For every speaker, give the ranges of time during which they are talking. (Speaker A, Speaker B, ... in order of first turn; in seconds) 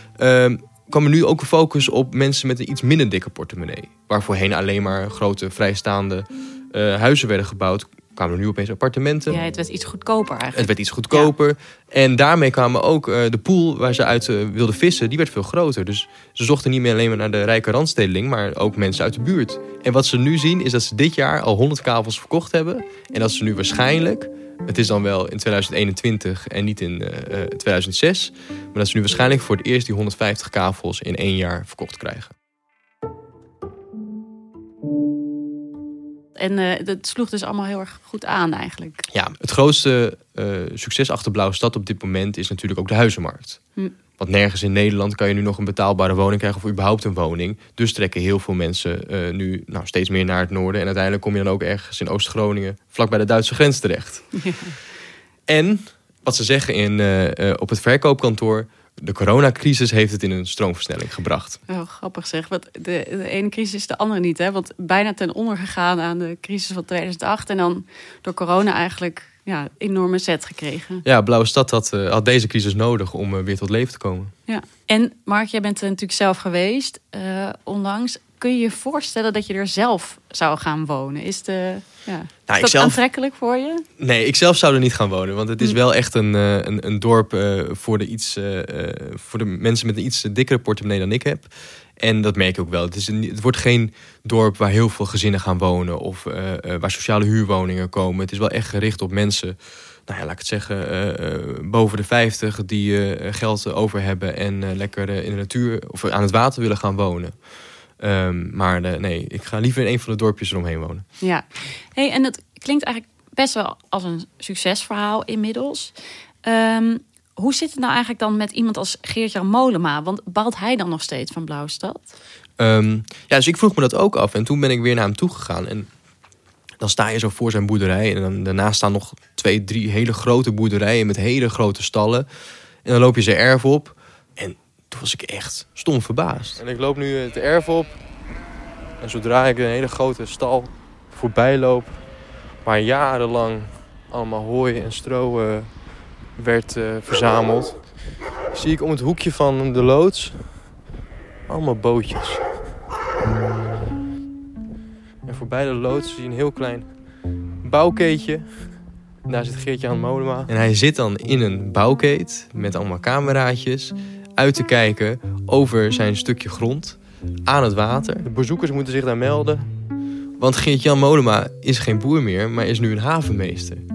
Speaker A: 0.2-9.4, 10.5-32.3, 39.1-43.6, 44.2-54.3, 55.5-61.6, 71.0-74.3, 82.5-83.2, 84.0-99.5, 100.1-107.3, 108.0-111.0, 122.6-125.9, 126.8-132.3, 132.8-138.0, 139.0-142.0, 142.6-145.8, 146.3-147.9, 148.5-150.7, 151.5-152.4, 155.2-156.9, 157.6-158.7, 159.2-169.7, 170.4-173.8
Speaker B: 9.3-11.3, 36.4-39.0, 54.3-54.8, 61.7-71.0, 74.5-83.8, 111.2-115.9, 116.4-122.0